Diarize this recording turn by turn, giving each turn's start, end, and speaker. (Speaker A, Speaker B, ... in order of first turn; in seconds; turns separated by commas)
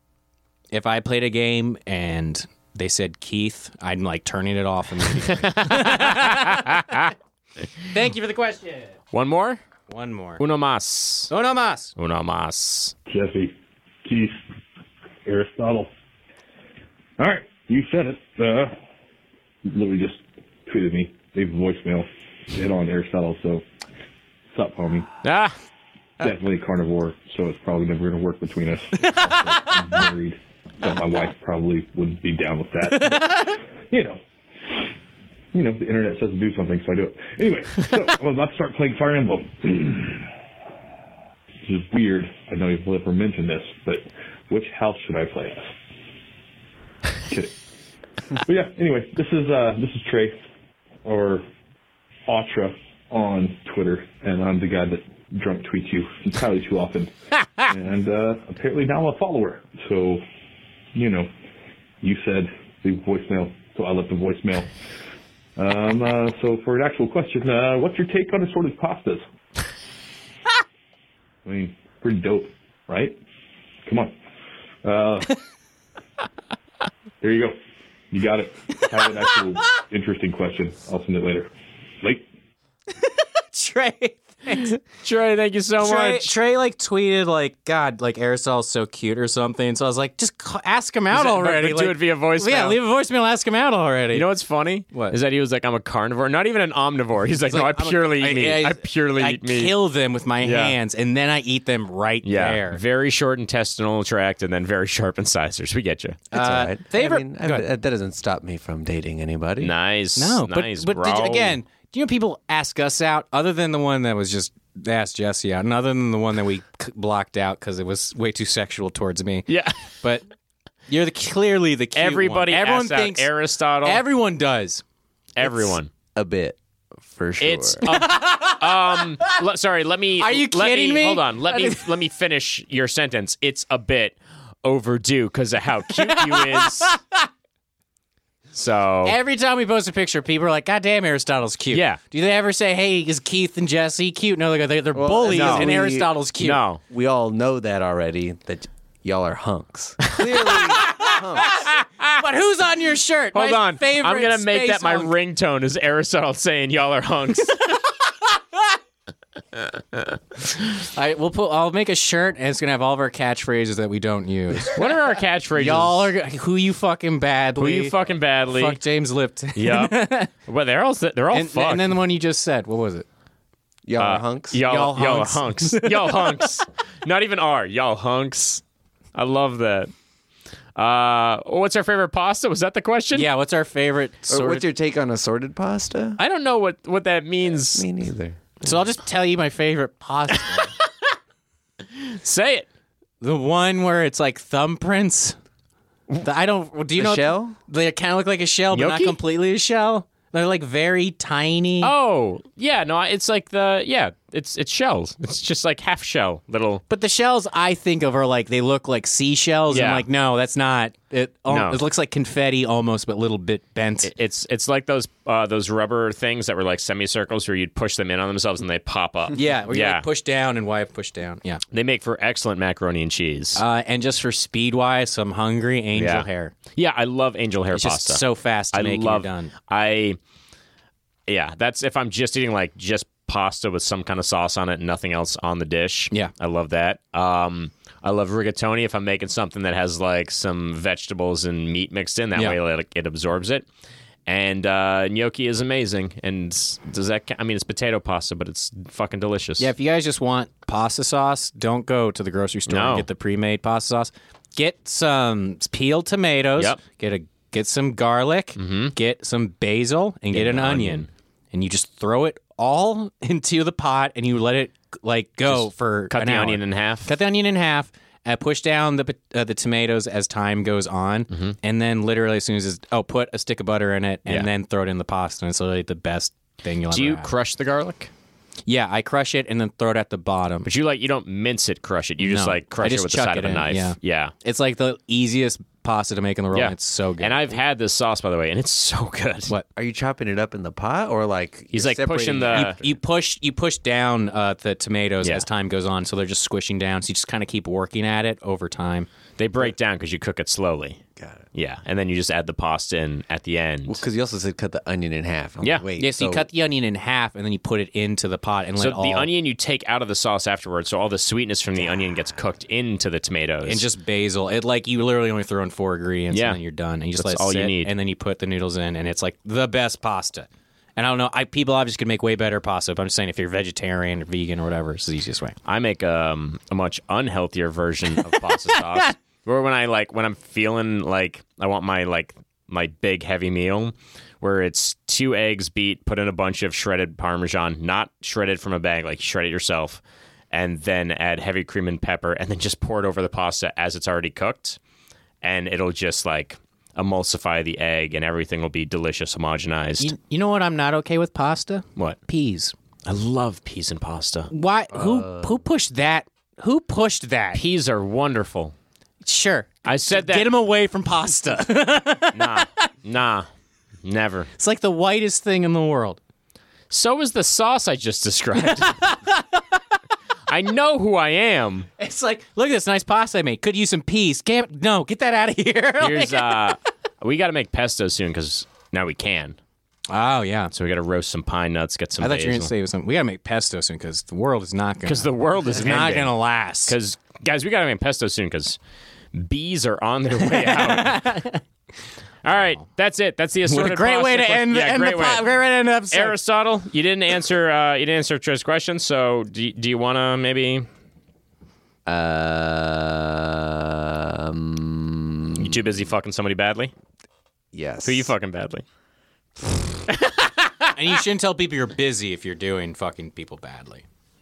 Speaker A: 0.7-6.8, Speaker B: 5.1-7.1, Speaker A: 7.9-8.9, Speaker B: 9.1-9.6, Speaker A: 9.9-10.4, Speaker B: 10.4-11.3, Speaker A: 11.3-11.9, Speaker B: 11.9-12.9, Speaker C: 13.1-14.4, Speaker C: 15.2-15.9, Speaker C: 17.2-18.7, Speaker C: 19.6-23.6, Speaker C: 24.5-25.1, Speaker B: 25.2-25.6, Speaker C: 26.2-34.9, Speaker C: 35.5-40.2, Speaker C: 41.6-45.7, Speaker C: 47.3-47.6, Speaker C: 48.4-50.4, Speaker C: 51.0-51.5, Speaker C: 52.3-60.2, Speaker C: 60.9-61.3, Speaker C: 62.0-64.7, Speaker C: 65.5-69.2, Speaker C: 71.4-73.2, Speaker C: 73.8-74.1, Speaker C: 74.8-75.4, Speaker C: 77.2-77.6, Speaker C: 78.1-82.3, Speaker A: 83.0-84.8, Speaker B: 84.6-86.3, Speaker A: 85.8-94.3, Speaker B: 91.1-92.8, Speaker B: 94.1-99.7, Speaker A: 94.9-95.2, Speaker A: 97.5-102.8, Speaker B: 100.4-100.8, Speaker B: 102.2-106.2, Speaker A: 106.3-107.7, Speaker D: 106.3-109.7, Speaker B: 109.6-111.6, Speaker A: 110.2-119.5, Speaker B: 119.5-119.8, Speaker A: 120.9-123.3, Speaker B: 121.9-124.0, Speaker A: 123.8-124.8, Speaker B: 125.3-125.9, Speaker A: 125.4-125.7, Speaker D: 126.1-127.8, Speaker B: 127.4-136.9, Speaker A: 127.8-129.3, Speaker A: 130.2-131.8, Speaker A: 135.9-137.3, Speaker B: 138.5-139.2, Speaker A: 139.0-146.6, Speaker B: 141.7-142.0, Speaker D: 144.9-146.1, Speaker B: 145.3-145.7, Speaker B: 146.4-146.8, Speaker D: 146.9-151.6, Speaker B: 150.1-150.8, Speaker A: 150.9-155.1, Speaker B: 151.8-152.1, Speaker B: 153.3-157.8, Speaker A: 160.9-164.9, Speaker B: 164.7-166.1, Speaker A: 165.5-167.9, Speaker B: 167.6-168.8, Speaker A: 168.5-170.3, Speaker B: 169.5-171.9, Speaker A: 171.3-173.1, Speaker D: 173.8-174.6, Speaker B: 174.0-178.6, Speaker A: 174.6-176.5, Speaker B: 179.1-179.9, Speaker B: 180.8-183.3, Speaker A: 183.1-184.7, Speaker D: 184.3-186.2, Speaker B: 186.2-187.9, Speaker D: 187.7-188.8, Speaker A: 188.6-190.7, Speaker B: 190.4-190.9, Speaker B: 191.9-192.7, Speaker A: 193.2-195.4, Speaker A: 196.2-201.9, Speaker D: 197.0-197.6, Speaker B: 198.7-199.2, Speaker B: 201.8-206.8, Speaker A: 206.9-214.1, Speaker B: 209.7-210.0, Speaker B: 211.5-211.8, Speaker B: 214.0-220.0, Speaker A: 219.3-221.6, Speaker B: 221.7-223.6, Speaker A: 223.6-226.5, Speaker B: 225.9-230.2, Speaker A: 227.7-229.5, Speaker B: 231.3-243.7, Speaker B: 244.2-249.7, Speaker A: 249.6-277.3, Speaker B: 252.7-253.1, Speaker B: 258.6-258.9, Speaker B: 260.3-261.1, Speaker B: 265.5-267.1, Speaker B: 271.3-271.6, Speaker B: 276.9-278.1, Speaker A: 278.7-280.7, Speaker B: 280.6-284.3, Speaker A: 282.2-287.5, Speaker B: 286.5-289.5, Speaker D: 289.8-292.9, Speaker B: 291.7-292.8, Speaker A: 292.5-299.1, Speaker B: 299.4-301.0, Speaker D: 301.2-301.4, Speaker B: 301.5-304.0, Speaker D: 303.9-306.4, Speaker A: 306.0-309.3, Speaker B: 308.8-313.8, Speaker A: 313.6-325.6, Speaker B: 316.3-316.6, Speaker B: 317.1-317.9, Speaker B: 325.6-340.0, Speaker A: 328.1-329.1, Speaker B: 340.5-344.8, Speaker B: 345.4-350.1, Speaker A: 350.0-352.7, Speaker B: 353.1-354.5, Speaker A: 354.5-357.6, Speaker D: 354.9-355.5, Speaker B: 357.5-358.7, Speaker A: 359.2-362.7, Speaker B: 359.8-360.5, Speaker B: 362.3-363.5, Speaker B: 364.0-364.5, Speaker A: 364.6-366.2, Speaker B: 366.9-369.1, Speaker A: 368.6-369.6, Speaker B: 370.5-371.9, Speaker A: 372.0-376.8, Speaker B: 376.0-379.6, Speaker A: 380.1-380.7, Speaker B: 380.7-382.7, Speaker A: 382.2-386.9, Speaker B: 385.0-388.8, Speaker B: 389.3-391.4, Speaker A: 390.4-391.6, Speaker B: 392.4-395.5, Speaker A: 393.6-396.4, Speaker B: 396.1-400.9, Speaker D: 402.1-405.8, Speaker B: 405.6-406.9, Speaker D: 407.7-408.3, Speaker B: 408.0-408.8, Speaker B: 410.1-410.9, Speaker A: 410.9-414.0